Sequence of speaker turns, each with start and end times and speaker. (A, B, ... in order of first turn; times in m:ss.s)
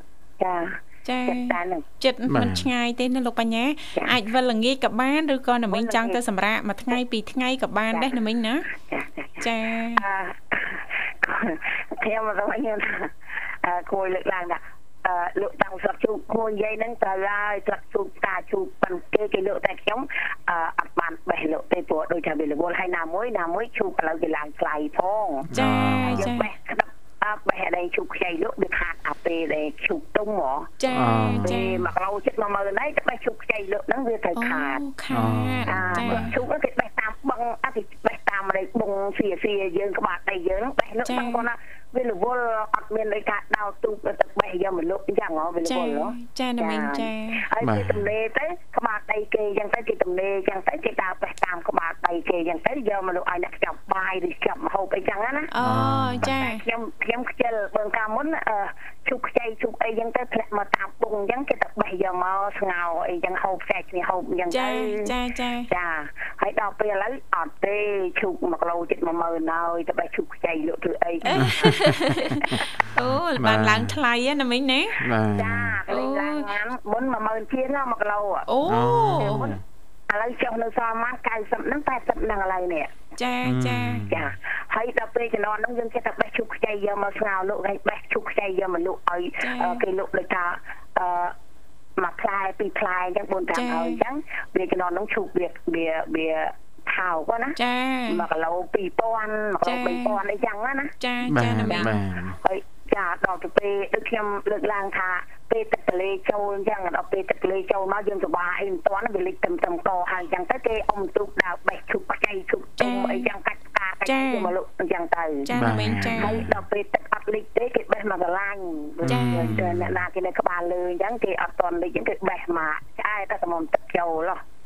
0:00.4-0:01.8 A
0:01.0-0:08.6 B
0:02.3-0:02.7 C
0:05.7-0:06.2 A
0:08.7-0:30.7 A
0:09.4-0:10.0 B
0:25.5-0:26.3 C
0:25.5-0:26.5 B
0:30.8-0:31.8 B
0:30.9-0:31.8 C
0:31.4-0:34.8 A
0:34.3-0:36.3 B
0:35.1-0:36.4 C
0:35.6-0:55.5 A
0:41.0-0:41.4 B
0:45.6-0:47.4 B
0:47.6-0:48.1 C
0:55.5-0:56.6 B
0:55.6-0:56.3 C
0:56.2-1:05.1 A
1:04.5-1:05.7 B
1:05.7-1:11.8 A
1:11.2-1:15.0 B
1:11.4-1:11.8 C
1:13.3-1:14.0 C
1:15.0-1:15.8 C
1:15.3-1:18.5 A
1:15.9-1:16.5 B
1:18.5-1:19.5 B
1:18.6-1:19.6 C
1:19.2-1:19.6 A
1:20.1-1:22.9 A
1:23.2-1:24.1 B
1:23.4-1:24.3 C
1:24.1-1:31.3 A
1:29.4-1:29.8 B
1:32.0-1:40.9 A
1:33.5-1:34.0 B
1:37.6-1:38.2 B
1:39.6-1:40.2 B
1:41.0-1:41.9 B
1:41.3-1:42.4 C
1:41.6-1:55.5 A
1:52.8-1:53.3 B
1:54.0-1:54.5 B
1:55.4-1:56.4 B
1:55.5-1:56.6 C
1:56.2-2:04.4 A
1:59.0-2:00.0 C
1:59.1-1:59.6 B